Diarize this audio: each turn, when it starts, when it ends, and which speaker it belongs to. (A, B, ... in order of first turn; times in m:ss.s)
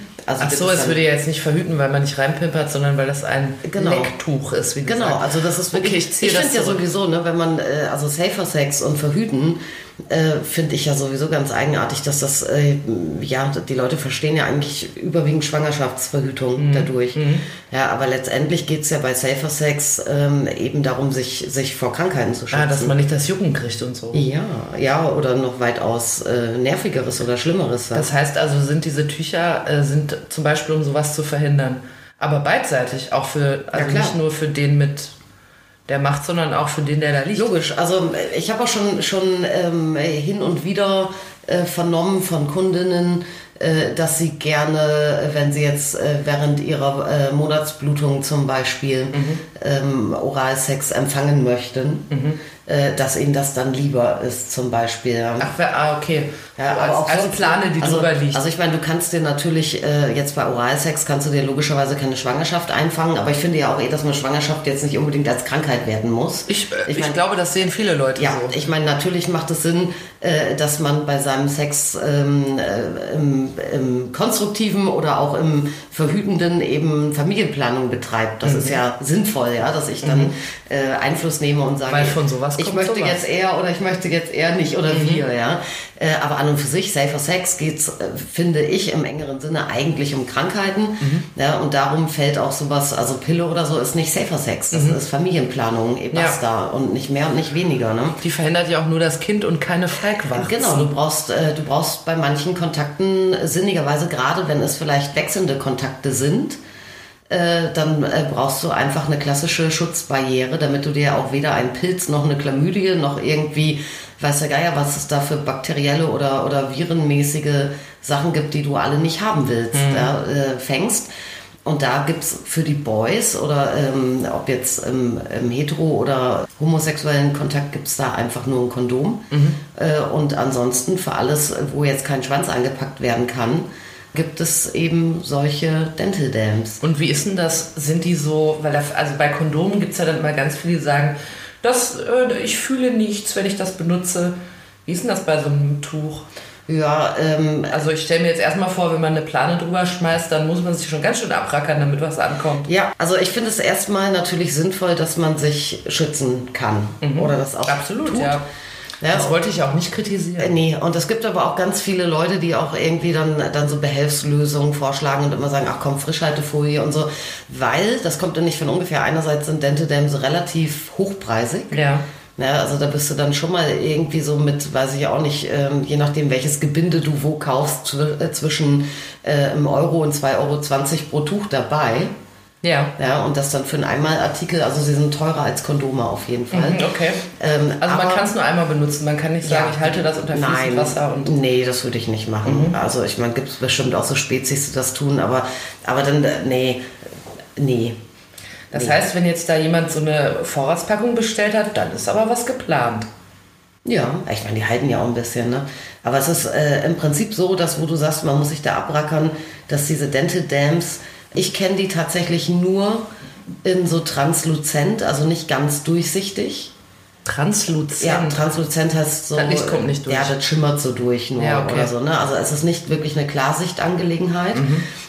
0:00.3-0:01.0 A
0:00.4-0:06.8 B
0:03.6-0:04.1 A
0:04.8-0:23.0 A
0:16.6-0:17.4 B
0:22.5-0:24.2 B
0:24.1-0:28.1 A
0:27.9-0:35.2 B
0:33.7-0:34.2 A
0:35.9-0:37.5 B
0:37.4-0:52.1 A
0:49.1-0:49.4 B
0:52.1-0:52.4 B
0:52.7-0:55.5 A
0:55.4-0:58.4 B
0:56.6-1:07.2 A
1:06.5-1:08.7 B
1:08.2-1:38.2 A
1:18.4-1:18.8 B
1:20.0-1:20.3 B
1:21.9-1:23.2 B
1:24.9-1:25.2 B
1:31.0-1:31.3 B
1:34.7-1:35.0 B
1:36.1-1:36.4 B
1:38.2-1:40.9 B
1:40.3-1:46.6 A
1:47.3-2:01.1 A
1:59.7-2:00.1 B
2:01.7-2:16.8 A
2:09.3-2:09.6 B
2:16.8-2:26.3 B
2:26.7-2:27.8 A
2:27.7-2:32.7 B
2:32.7-2:38.4 A
2:37.0-2:38.5 B
2:39.0-2:39.3 A
2:39.1-2:40.5 B
2:40.4-2:51.8 A
2:51.7-2:52.0 B
2:52.4-3:02.1 A
3:02.6-3:02.9 B
3:03.0-3:08.3 A
3:06.5-3:07.3 B
3:07.8-3:11.3 B
3:09.4-3:16.9 A
3:12.4-3:12.8 B
3:17.6-3:18.0 A
3:18.7-3:23.1 B
3:18.7-3:19.1 A
3:23.9-3:33.1 A
3:33.6-3:36.7 A
3:37.3-3:38.5 B
3:38.0-3:44.7 A
3:39.4-3:40.4 B
3:41.4-3:41.9 B
3:44.6-3:44.9 B